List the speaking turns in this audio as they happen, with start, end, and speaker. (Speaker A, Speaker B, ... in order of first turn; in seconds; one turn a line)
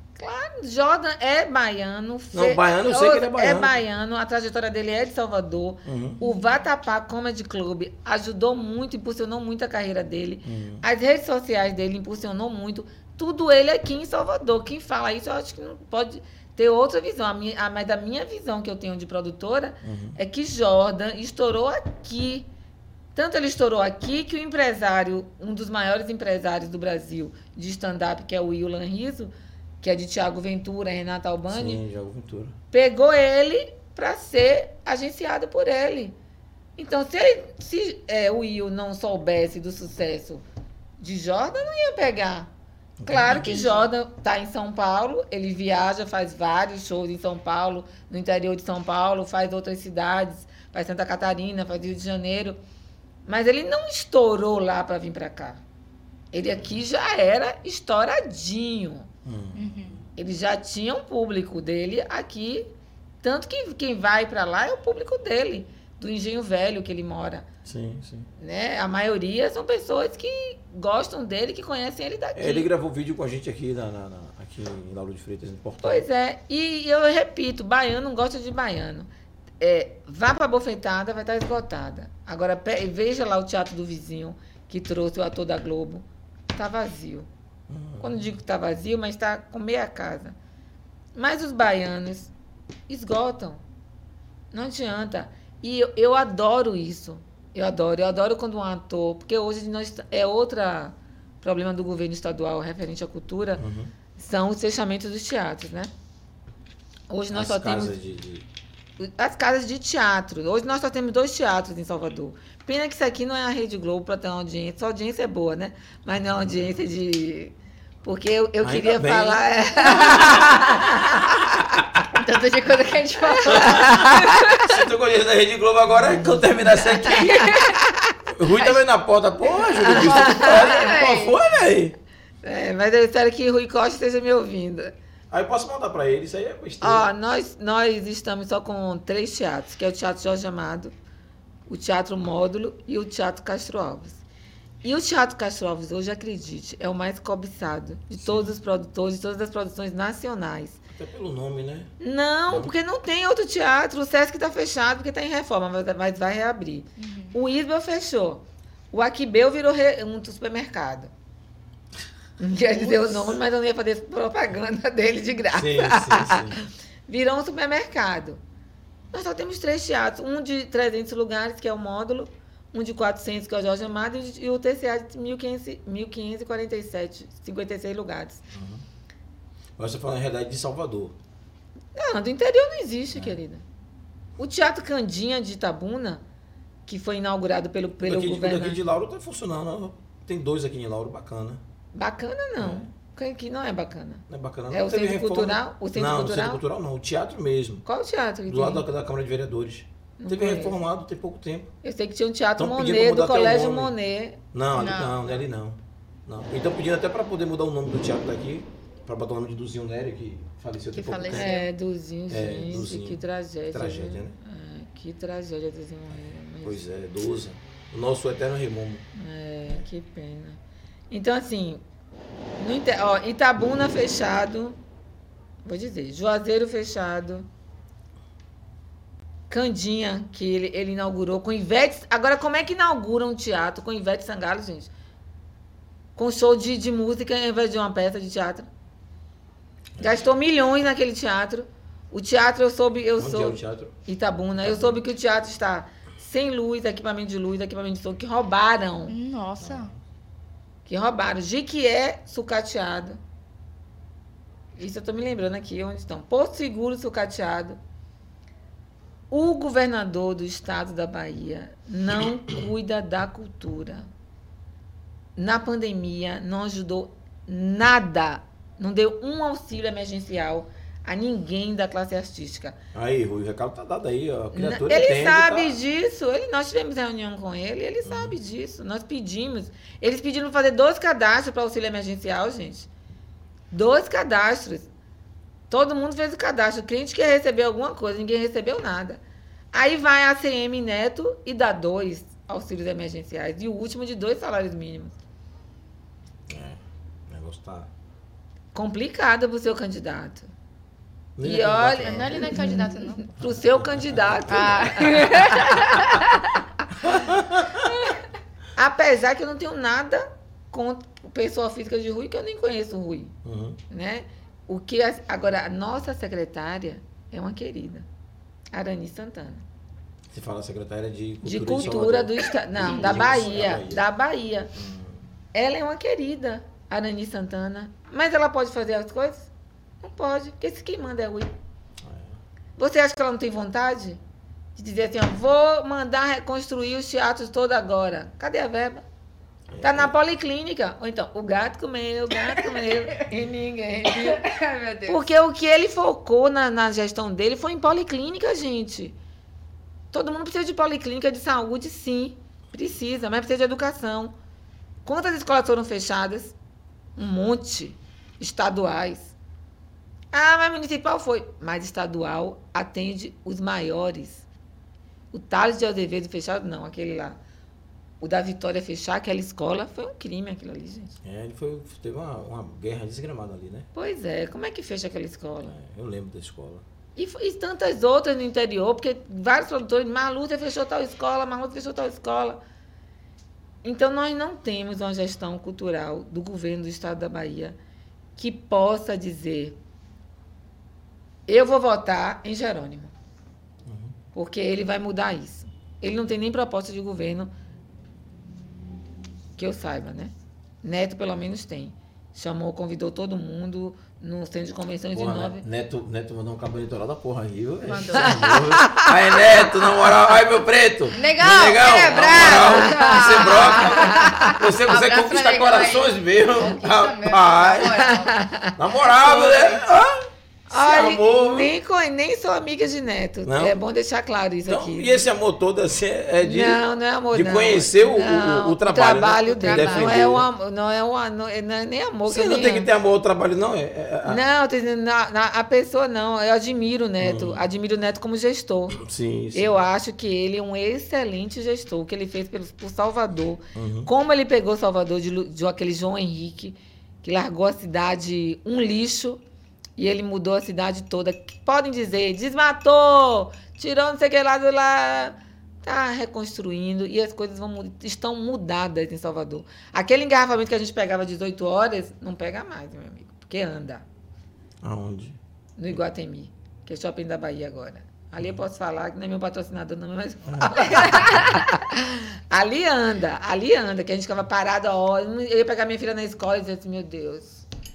Speaker A: 0.1-22.5
Speaker B: 2.3-3.8
Speaker B: 5.8-6.2
Speaker B: 10.4-10.8
Speaker B: 19.8-20.2
Speaker A: 23.1-31.8
Speaker B: 31.5-32.5
Speaker A: 32.7-36.1
Speaker A: 36.8-40.4
Speaker A: 41.0-42.5
Speaker B: 43.0-43.8
Speaker A: 43.0-52.6
Speaker A: 53.2-55.6
Speaker A: 56.3-59.1
Speaker B: 59.2-60.0
Speaker C: 59.5-60.0
Speaker A: 60.1-62.7
Speaker A: 63.2-67.5
Speaker B: 67.6-68.3
Speaker A: 68.4-72.7
Speaker B: 72.3-76.0
Speaker A: 75.8-79.1
Speaker A: 79.6-87.3
Speaker B: 87.7-88.3
Speaker A: 88.0-90.3
Speaker A: 91.2-92.3
Speaker A: 92.9-93.6
Speaker A: 94.5-103.6
Speaker B: 103.6-103.9
Speaker A: 104.2-105.9
Speaker A: 107.1-108.0
Speaker B: 107.3-108.5
Speaker A: 109.0-121.4
Speaker B: 116.3-116.8
Speaker B: 118.6-121.1
Speaker C: 122.1-124.7
Speaker A: 123.2-124.5
Speaker B: 123.5-127.5
Speaker C: 126.8-127.8
Speaker A: 127.6-128.1
Speaker B: 128.3-131.9
Speaker C: 129.5-131.4
Speaker A: 129.8-130.8
Speaker A: 132.4-134.9
Speaker B: 135.3-137.1
Speaker A: 136.8-140.9
Speaker A: 141.7-144.2
Speaker A: 144.8-150.8
Speaker B: 148.2-148.5
Speaker B: 150.9-151.9
Speaker A: 152.0-161.1
Speaker C: 157.0-157.3
Speaker A: 162.4-168.4
Speaker B: 165.5-166.6
Speaker A: 169.1-178.4
Speaker B: 178.5-178.8
Speaker B: 179.8-181.1
Speaker A: 181.9-183.6
Speaker B: 183.1-183.4
Speaker A: 184.4-186.2
Speaker A: 186.8-188.8
Speaker B: 188.0-191.6
Speaker A: 191.9-196.6
Speaker B: 192.6-192.9
Speaker B: 194.3-197.8
Speaker A: 197.8-198.8
Speaker B: 198.5-201.7
Speaker A: 200.2-200.8
Speaker A: 201.8-204.4
Speaker B: 202.6-203.9
Speaker B: 204.5-211.5
Speaker C: 204.7-205.2
Speaker C: 210.9-211.7
Speaker A: 211.3-216.8
Speaker B: 212.3-214.4
Speaker B: 216.6-219.0
Speaker A: 219.1-220.6
Speaker A: 221.1-221.8
Speaker A: 222.6-224.8
Speaker A: 225.6-227.5
Speaker A: 229.5-234.9
Speaker A: 236.2-238.7
Speaker A: 240.0-249.1
Speaker B: 243.2-243.9
Speaker B: 244.6-245.0
Speaker C: 249.1-249.9
Speaker B: 249.6-250.0
Speaker A: 250.9-253.2
Speaker A: 254.8-257.8
Speaker A: 259.3-264.1
Speaker A: 265.4-272.8
Speaker B: 272.9-275.8
Speaker A: 274.5-282.9
Speaker B: 278.0-278.3
Speaker A: 283.7-284.9
Speaker A: 285.7-289.2
Speaker A: 289.7-295.2
Speaker B: 296.5-297.9
Speaker A: 298.7-300.5
Speaker B: 301.4-302.7
Speaker A: 301.4-306.6
Speaker C: 302.0-303.3
Speaker B: 303.5-305.3
Speaker C: 304.5-306.2
Speaker B: 307.0-307.9
Speaker A: 308.8-313.3
Speaker B: 313.4-313.8
Speaker A: 313.9-318.1
Speaker A: 318.7-319.6
Speaker B: 320.3-324.0
Speaker A: 321.4-324.7
Speaker B: 324.7-325.2
Speaker A: 325.5-329.5
Speaker A: 330.0-331.5
Speaker B: 332.0-332.4
Speaker A: 332.8-334.2
Speaker A: 334.7-339.0
Speaker B: 339.7-340.1
Speaker A: 339.8-344.4
Speaker C: 344.0-345.2
Speaker A: 345.1-349.1
Speaker A: 350.1-354.3
Speaker A: 355.0-356.6
Speaker A: 357.2-359.3
Speaker A: 360.3-364.4
Speaker A: 365.3-367.4
Speaker A: 368.2-371.1
Speaker B: 371.2-373.9
Speaker A: 373.9-375.8
Speaker B: 375.7-376.8
Speaker A: 377.1-382.6
Speaker A: 383.8-387.8
Speaker A: 388.4-389.8
Speaker A: 391.5-393.1
Speaker B: 393.8-394.1
Speaker A: 394.3-397.5
Speaker A: 399.6-405.6
Speaker B: 405.1-418.0
Speaker C: 407.8-408.6
Speaker A: 408.2-410.1
Speaker C: 411.1-418.4
Speaker A: 412.2-414.6
Speaker A: 418.0-418.8
Speaker B: 418.8-420.2
Speaker C: 419.2-419.7
Speaker A: 420.7-425.2
Speaker B: 420.7-421.7
Speaker B: 423.4-423.8
Speaker B: 424.7-426.8
Speaker A: 426.4-432.9
Speaker B: 427.3-430.5
Speaker C: 429.5-430.2
Speaker B: 432.3-434.4
Speaker A: 434.2-439.0
Speaker B: 437.2-437.6
Speaker B: 438.9-439.8
Speaker A: 439.5-449.4
Speaker B: 443.7-444.1
Speaker A: 450.0-464.0
Speaker B: 464.8-465.4
Speaker A: 465.8-477.6
Speaker B: 470.5-471.4